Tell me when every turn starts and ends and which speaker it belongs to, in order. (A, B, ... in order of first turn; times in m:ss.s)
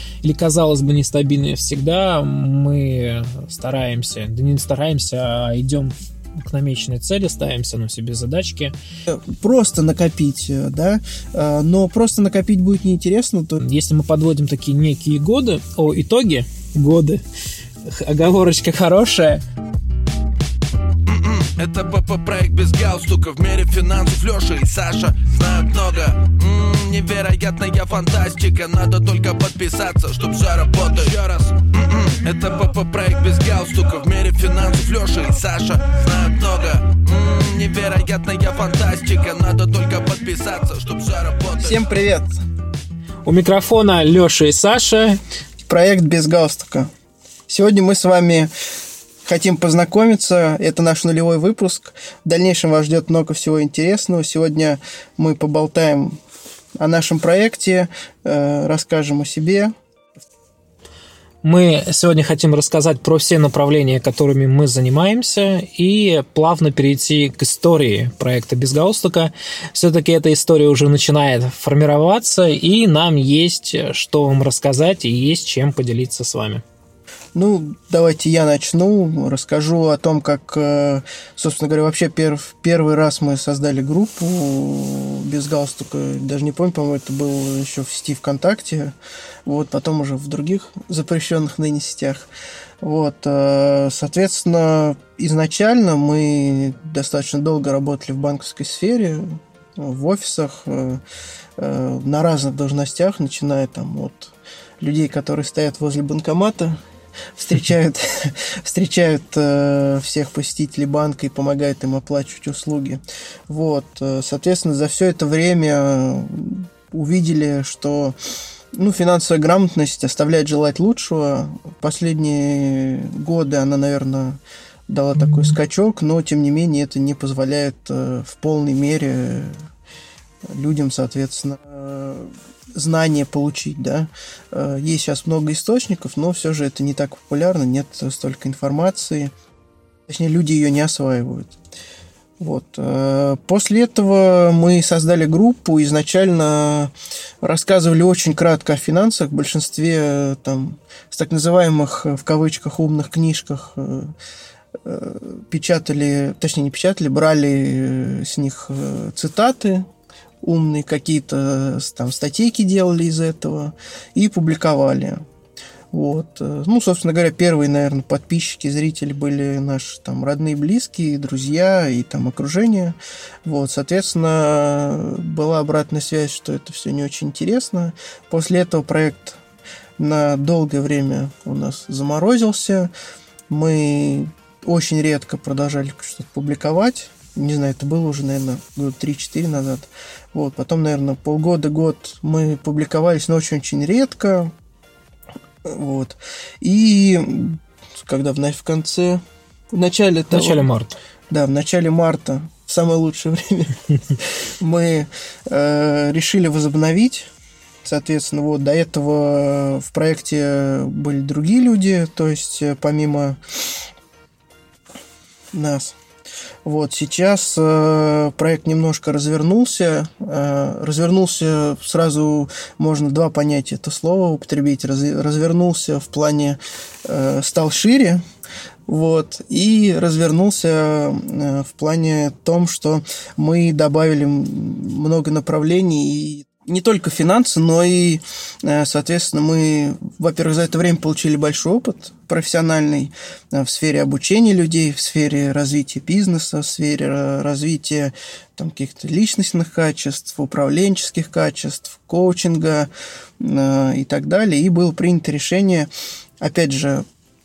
0:00.2-0:08.8 A
0:09.1-0:13.6 B
0:13.6-0:17.2 A
0:17.8-0:19.4 A
0:21.1-0:41.9 C
0:41.6-0:42.3 B
0:43.2-0:45.2 A
0:45.6-0:46.9 B
0:47.5-0:48.5 B
0:49.2-0:56.2 B
0:56.8-0:59.7 B
1:01.4-1:16.6 A
1:17.4-1:29.0 B
1:29.5-1:32.3 B
1:32.8-1:41.0 B
1:41.6-1:46.8 B
1:47.4-1:58.2 B
1:58.7-2:09.6 B
2:10.5-2:19.3 B
2:20.1-2:21.5 B
2:22.4-2:34.1 B
2:34.8-2:39.9 B
2:40.4-2:45.2 B
2:45.9-2:59.4 B
3:00.0-3:02.9 B
3:03.5-3:14.5 B
3:15.6-3:20.6 B
3:20.3-3:21.0 A
3:21.3-3:27.3 B
3:27.8-3:33.4 B
3:35.5-3:36.0 B
3:36.6-3:48.2 B
3:48.9-4:12.9 B
4:13.4-4:15.9 B
4:16.4-4:17.0 B